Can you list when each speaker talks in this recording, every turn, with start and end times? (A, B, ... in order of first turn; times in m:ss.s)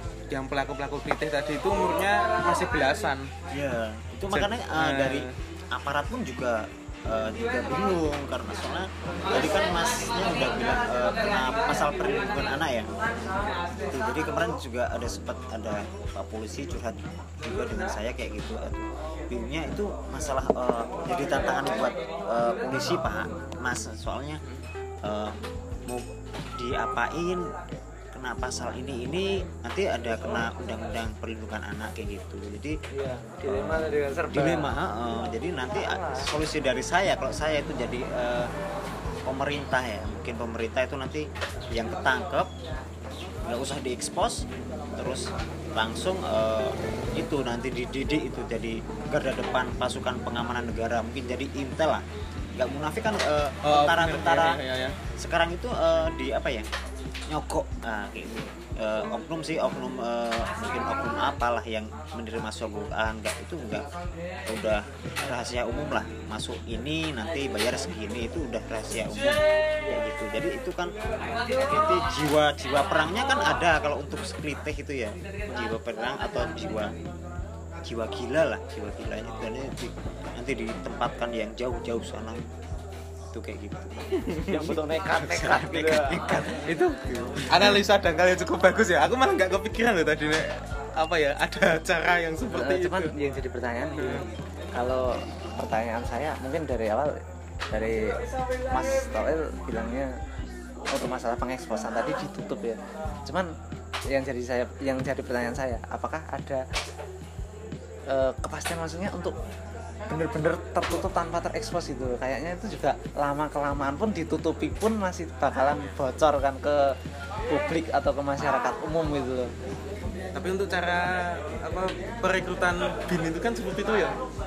0:00.3-0:03.3 A
0:03.5-0:12.9 B
0:04.3-0:05.3 A
0:13.9-0:24.4 B
0:25.0-0:25.4 B
0:26.6-0:27.4 B
0:28.1-0:32.8 B
0:32.9-0:34.7 C
0:34.3-0:38.5 B
0:35.7-0:36.3 C
0:39.2-0:42.5 B
0:43.5-0:52.0 B
0:52.6-0:54.6 B
0:53.6-0:55.0 A
0:55.2-0:56.7 B
0:57.3-1:03.9 B
1:04.5-1:10.9 B
1:11.6-1:16.9 B
1:17.8-1:22.5 B
1:23.3-1:24.2 B
1:24.2-1:24.7 A
1:24.5-1:27.4 C
1:25.3-1:26.5 B
1:27.5-1:33.1 A
1:32.5-1:37.2 C
1:34.0-1:34.2 A
1:37.7-1:38.1 C
1:38.7-1:40.1 C
1:40.9-1:43.5 C
1:44.1-1:46.6 C
1:48.1-1:49.3 C
1:50.1-1:56.9 C
1:57.5-1:59.5 C
2:00.3-2:04.2 A